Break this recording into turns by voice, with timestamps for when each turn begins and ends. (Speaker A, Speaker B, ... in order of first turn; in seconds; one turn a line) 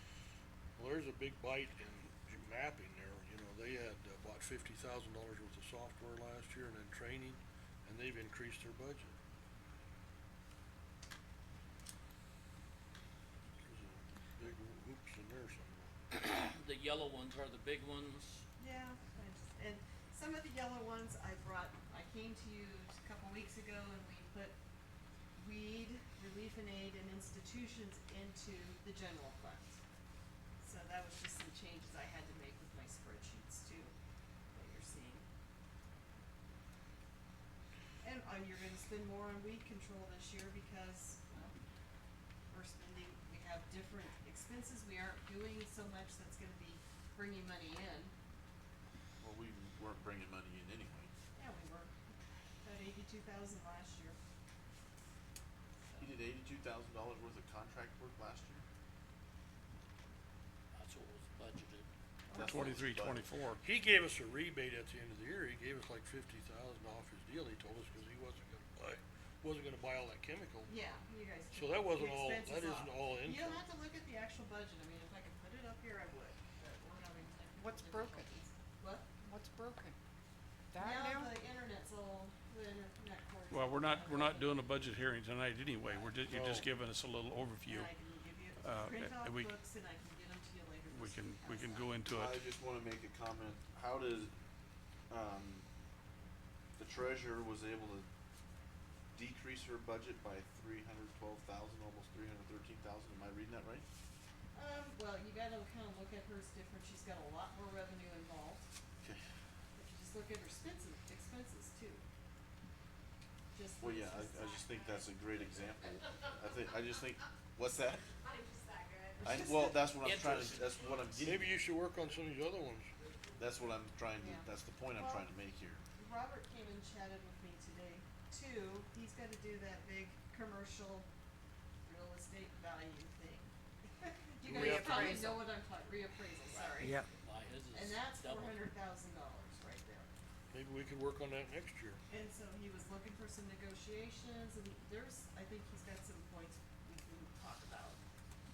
Speaker A: 0.8-9.1
Speaker A: 13.6-15.9
Speaker B: 16.1-18.3
Speaker C: 18.6-24.6
Speaker C: 25.4-29.8
Speaker C: 30.6-33.9
Speaker C: 34.5-35.3
Speaker C: 38.0-41.5
Speaker C: 42.5-48.1
Speaker D: 49.2-51.1
Speaker C: 51.3-51.9
Speaker C: 52.6-54.2
Speaker D: 56.0-58.6
Speaker B: 60.7-61.9
Speaker C: 62.3-62.7
Speaker D: 62.3-63.3
Speaker E: 62.4-63.6
Speaker A: 63.6-70.7
Speaker C: 70.7-79.1
Speaker A: 71.5-73.6
Speaker F: 77.6-78.4
Speaker F: 79.2-80.0
Speaker F: 80.7-81.3
Speaker C: 80.8-84.9
Speaker E: 83.5-87.9
Speaker C: 85.8-86.2
Speaker D: 86.3-86.6
Speaker C: 87.7-91.9
Speaker E: 88.6-89.5
Speaker E: 90.9-92.4
Speaker D: 92.0-94.3
Speaker D: 95.1-95.7
Speaker D: 96.8-98.1
Speaker D: 99.1-103.8
Speaker C: 104.5-108.7
Speaker C: 109.7-112.0
Speaker C: 113.5-115.4
Speaker D: 113.8-118.1
Speaker C: 118.2-119.9
Speaker D: 119.2-121.5
Speaker B: 120.0-121.1
Speaker A: 121.2-122.9
Speaker D: 123.3-125.8
Speaker C: 124.2-125.3
Speaker C: 126.0-131.1
Speaker C: 131.8-137.0
Speaker A: 134.5-134.8
Speaker F: 134.5-135.4
Speaker B: 136.5-138.6
Speaker C: 137.6-140.1
Speaker A: 140.5-142.0
Speaker C: 142.1-148.0